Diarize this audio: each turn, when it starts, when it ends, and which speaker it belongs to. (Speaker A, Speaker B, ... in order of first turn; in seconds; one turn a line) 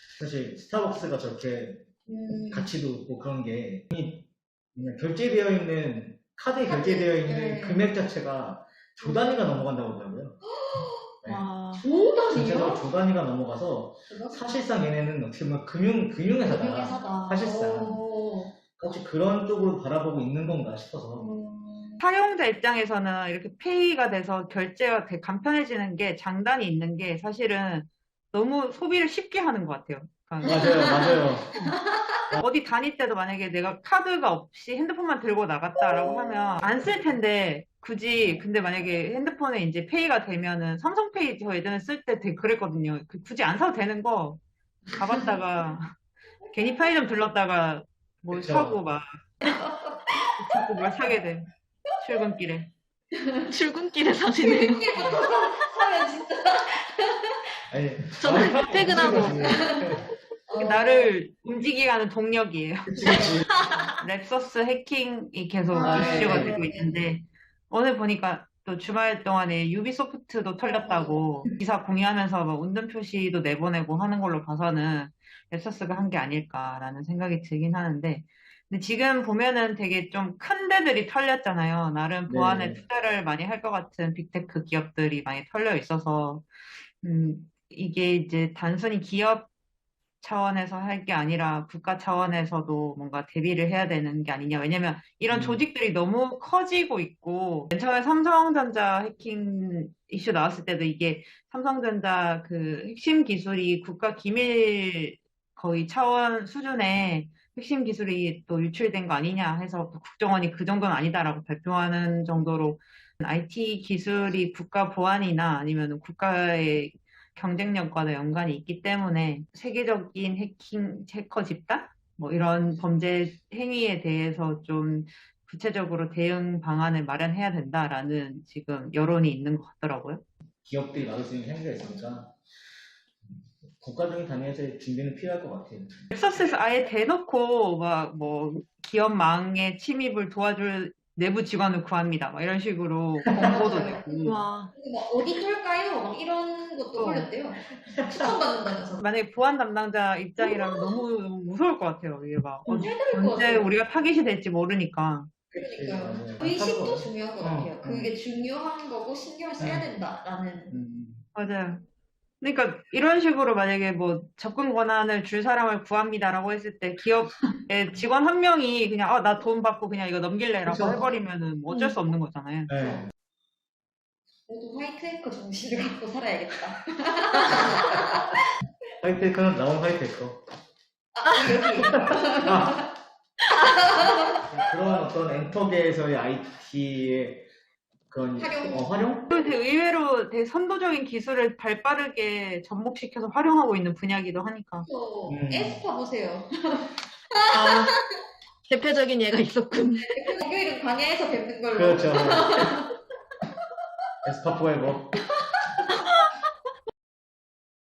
Speaker A: 0.2-1.9
Speaker B: 2.0-2.7
Speaker A: 2.5-10.4
Speaker B: 6.6-7.9
Speaker B: 9.0-9.4
Speaker B: 10.5-11.1
Speaker C: 11.3-11.8
Speaker B: 11.8-12.9
Speaker A: 12.3-18.0
Speaker B: 14.1-14.4
Speaker B: 16.4-18.6
Speaker A: 18.8-21.3
Speaker B: 21.2-22.0
Speaker D: 22.0-31.0
Speaker A: 30.4-31.7
Speaker B: 30.5-32.2
Speaker D: 32.3-46.0
Speaker D: 46.5-49.6
Speaker A: 48.3-48.8
Speaker B: 49.5-50.0
Speaker D: 50.3-51.5
Speaker D: 52.0-52.7
Speaker B: 53.1-53.5
Speaker C: 53.5-55.1
Speaker B: 54.4-57.4
Speaker A: 57.7-60.1
Speaker C: 58.2-59.6
Speaker B: 58.9-59.9
Speaker B: 60.5-61.1
Speaker D: 60.6-63.3
Speaker A: 62.9-63.6
Speaker D: 64.0-86.5
Speaker B: 65.7-67.0
Speaker A: 65.8-66.6
Speaker B: 70.6-71.4
Speaker A: 82.3-82.8
Speaker D: 87.0-89.5
Speaker D: 90.2-130.2
Speaker A: 95.3-95.6
Speaker A: 130.7-132.3
Speaker A: 133.3-136.1
Speaker D: 136.1-144.4
Speaker A: 143.2-143.5
Speaker B: 143.3-149.0
Speaker C: 144.2-144.7
Speaker D: 146.9-147.3
Speaker A: 147.8-148.4
Speaker D: 149.0-155.3
Speaker B: 150.4-151.0
Speaker B: 152.7-153.7
Speaker B: 155.5-160.8
Speaker A: 155.5-158.2
Speaker A: 159.6-159.9
Speaker A: 160.7-161.2
Speaker D: 161.3-161.8
Speaker D: 162.4-173.0
Speaker A: 170.7-171.1
Speaker A: 172.7-173.1
Speaker B: 174.5-178.4
Speaker A: 177.5-177.8
Speaker A: 179.0-180.4
Speaker B: 181.1-182.9
Speaker A: 181.7-182.8
Speaker B: 183.5-184.5
Speaker A: 184.4-187.5
Speaker A: 188.1-189.3
Speaker B: 188.3-189.4
Speaker D: 189.3-194.9
Speaker B: 194.8-198.0
Speaker A: 195.3-195.8
Speaker C: 197.5-198.0
Speaker C: 198.7-200.3
Speaker B: 200.1-202.9
Speaker A: 201.7-202.8
Speaker A: 204.2-205.2